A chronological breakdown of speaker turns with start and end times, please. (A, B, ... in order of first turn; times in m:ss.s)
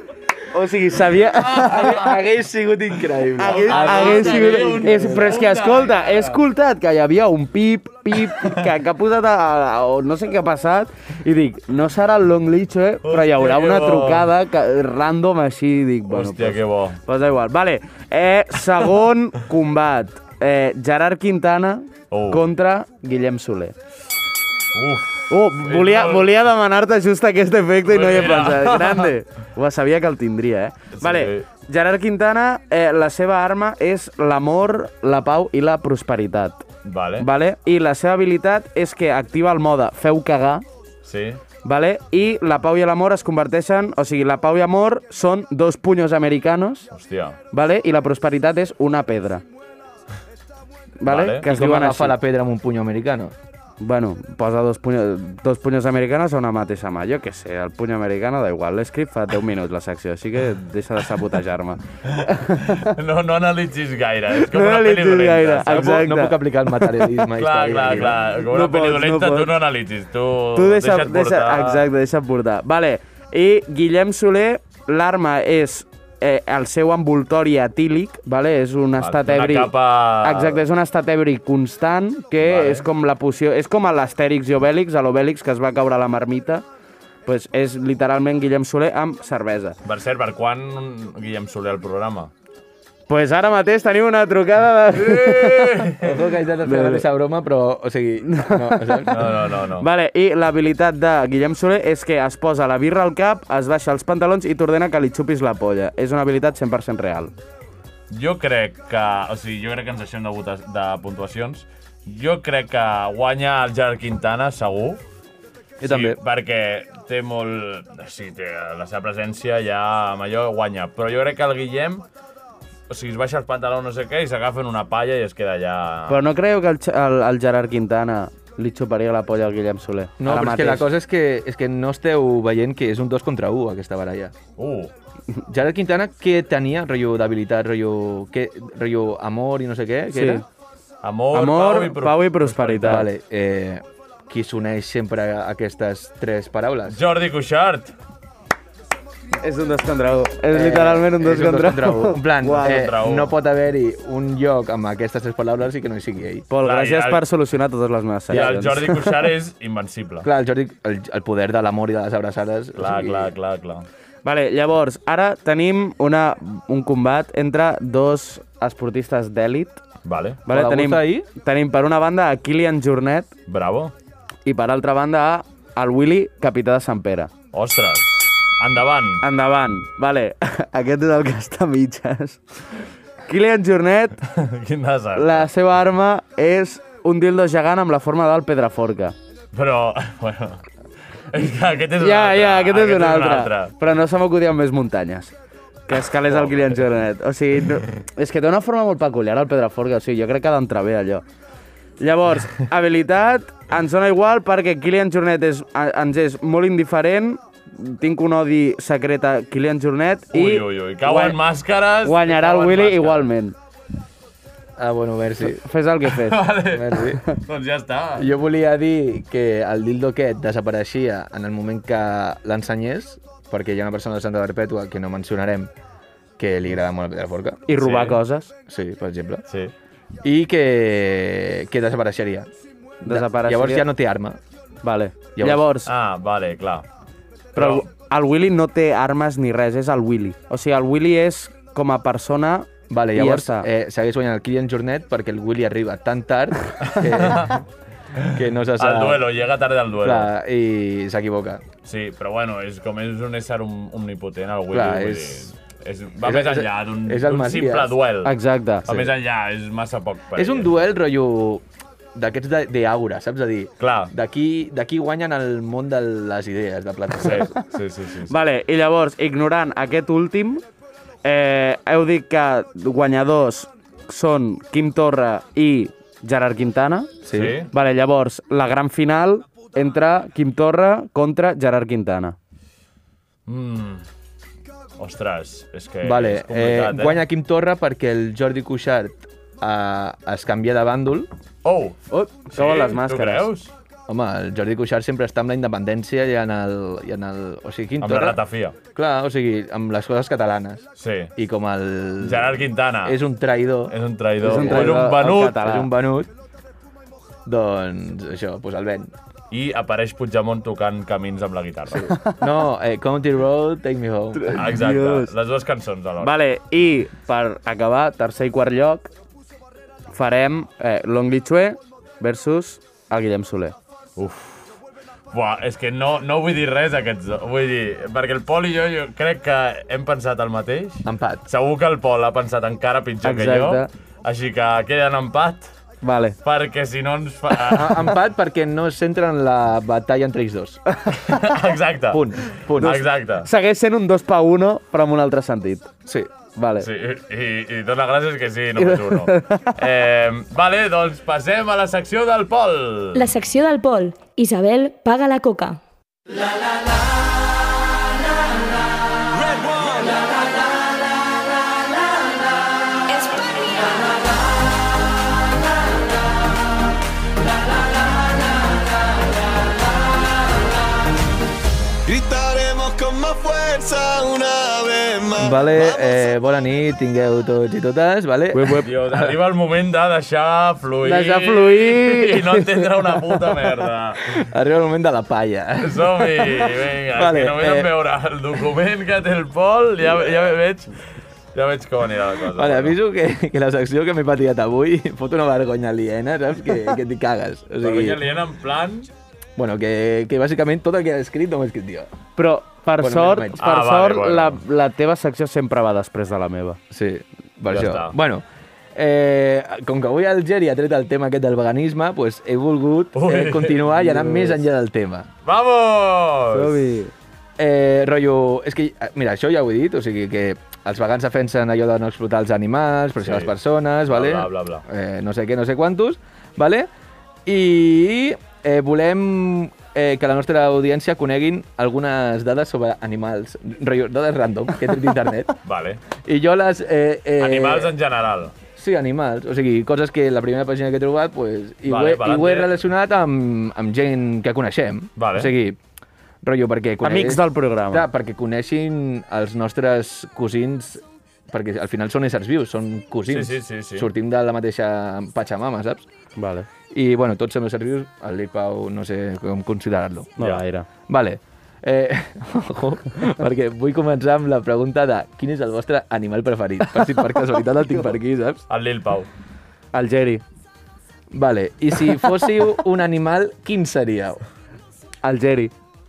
0:00.5-0:02.1 A
0:01.4-0:02.1 B
0:01.5-0:05.4 C
0:03.4-0:23.8 A
0:03.4-0:06.4 B
0:08.2-0:08.6 B
0:13.0-0:14.3 B
0:16.1-0:17.0 B
0:22.1-0:22.5 B
0:24.7-0:26.3 B
0:25.3-0:36.6 A
0:27.8-0:29.1 B
0:31.0-0:31.5 B
0:36.8-0:37.3 B
0:37.2-0:40.6 A
0:41.0-0:41.4 B
0:41.6-0:46.9 A
0:46.9-0:47.4 B
0:47.5-0:49.4 A
0:51.0-0:52.2 A
0:51.1-0:51.5 B
0:51.4-0:53.3 C
0:53.8-1:02.9 A
1:02.1-1:06.1 B
1:04.4-1:07.1 A
1:05.7-1:08.2 C
1:07.4-1:11.8 B
1:08.2-1:09.5 A
1:10.6-1:26.6 A
1:19.0-1:20.6 B
1:22.4-1:22.9 B
1:27.3-1:29.8 A
1:29.8-1:32.3 B
1:33.1-1:35.9 A
1:34.9-1:36.2 B
1:36.0-1:39.3 C
1:36.6-1:37.1 A
1:38.3-1:39.1 A
1:39.1-1:39.9 B
1:39.8-1:47.3 A
1:48.1-1:55.0 B
1:55.8-1:56.2 C
1:55.8-2:02.0 B
2:02.9-2:06.2 B
2:06.1-2:10.9 A
2:10.2-2:14.3 C
2:14.6-2:14.9 B
2:15.5-2:20.4 C
2:20.1-2:20.4 A
2:21.0-2:23.1 B
2:21.3-2:23.1 A
2:22.8-2:27.0 C
2:26.9-2:27.9 B
2:29.4-2:32.9 A
2:30.5-2:36.5 C
2:32.6-2:33.3 B
2:36.5-2:39.2 A
2:36.6-2:37.2 B
2:38.3-2:40.3 B
2:38.3-2:38.7 C
2:40.2-2:43.3 C
2:42.8-2:43.9 B
2:44.2-2:49.8 A
2:50.0-2:50.4 B
2:50.5-2:53.3 A
2:50.5-2:51.3 C
2:53.5-2:53.9 B
2:54.4-2:57.3 A
2:57.5-2:59.2 B
2:59.2-3:02.4 A
3:03.3-3:04.2 A
3:04.3-3:05.5 B
3:05.2-3:09.2 A
3:09.5-3:10.6 B
3:11.3-3:13.7 B
3:12.0-3:15.3 A
3:15.9-3:21.2 A
3:16.2-3:16.8 B
3:22.0-3:31.4 A
3:30.3-3:33.3 B
3:32.0-3:33.6 A
3:34.8-3:35.6 C
3:35.4-3:36.5 A
3:36.0-3:38.3 B
3:36.7-3:37.2 C
3:38.2-3:45.7 C
3:46.4-3:47.6 C
3:47.7-3:48.5 A
3:47.7-3:48.2 B
3:48.7-3:49.4 C
3:49.5-3:49.7 B
3:50.2-3:52.5 C
3:53.0-3:54.4 C
3:53.0-3:53.8 A
3:54.8-3:55.9 A
3:55.4-3:55.6 C
3:55.9-3:56.8 B
3:57.6-4:03.7 A
3:57.6-3:57.9 B
4:02.9-4:07.6 C
4:06.8-4:07.6 B
4:08.2-4:10.3 B
4:08.3-4:09.3 C
4:10.0-4:11.6 C
4:11.8-4:18.3 B
4:14.7-4:15.5 C
4:16.2-4:17.9 C
4:18.2-4:18.9 A
4:18.9-4:20.7 B
4:20.4-4:21.6 C
4:22.2-4:27.5 C
4:23.8-4:24.1 B
4:27.2-4:28.3 B
4:28.3-4:30.6 A
4:31.2-4:37.1 A
4:37.2-4:37.6 C
4:37.3-4:37.7 B
4:37.7-4:42.4 A
4:43.5-4:44.0 B
4:45.0-4:47.2 B
4:46.0-4:51.3 C
4:51.6-4:52.0 B
4:52.1-4:53.5 A
4:52.5-4:53.7 B
4:54.1-4:58.4 C
4:58.0-4:58.8 B
4:58.9-5:00.8 C
5:01.0-5:01.3 B
5:01.4-5:06.3 C
5:02.2-5:03.2 B
5:03.9-5:05.6 B
5:04.4-5:05.9 A
5:07.5-5:09.1 C
5:09.5-5:12.1 B
5:12.0-5:14.7 C
5:12.1-5:12.4 A
5:14.4-5:15.3 A
5:14.6-5:16.3 B
5:16.2-5:19.1 A
5:20.1-5:23.8 A
5:24.2-5:24.7 B
5:25.3-5:35.7 B
5:31.0-5:31.4 C
5:33.2-5:33.9 A
5:36.0-5:36.4 A
5:36.4-5:38.1 B
5:37.6-5:40.8 C
5:41.1-5:43.5 B
5:42.1-5:43.0 C
5:43.4-5:45.9 A
5:46.6-5:46.9 A
5:46.8-5:53.2 B
5:48.8-5:49.8 A
5:53.2-5:55.8 D
5:59.4-6:00.1 E
6:12.1-6:16.2 E
6:15.4-6:19.4 C
6:18.5-6:18.9 A
6:18.8-6:24.4 B
6:21.0-6:23.1 A
6:24.3-6:27.9 C
6:25.8-6:31.0 B
6:30.1-6:30.4 C
6:31.6-6:33.0 B
6:32.5-6:38.2 C
6:37.8-6:39.1 B
6:39.6-6:42.1 C
6:42.4-6:46.8 A
6:43.0-6:43.6 C
6:43.6-6:44.6 B
6:46.9-6:55.3 C
6:47.7-6:48.1 B
6:53.2-6:53.9 B
6:54.0-6:54.6 A
6:55.4-6:56.8 B
6:56.5-6:57.1 A
6:57.6-7:06.9 C
7:03.2-7:03.5 B
7:04.1-7:04.8 B
7:07.5-7:15.5 C
7:15.6-7:16.0 B
7:16.2-7:17.9 C
7:17.4-7:18.6 B
7:18.8-7:25.8 C
7:21.9-7:22.8 B
7:25.2-7:25.5 B
7:26.4-7:36.0 C
7:27.0-7:28.0 A
7:33.3-7:34.1 B
7:36.4-7:36.7 A
7:36.9-7:40.3 C
7:40.4-7:40.9 A
7:41.1-7:48.6 C
7:48.7-7:49.3 B
7:49.9-7:50.4 A
7:51.3-7:54.4 C
7:55.2-7:55.7 A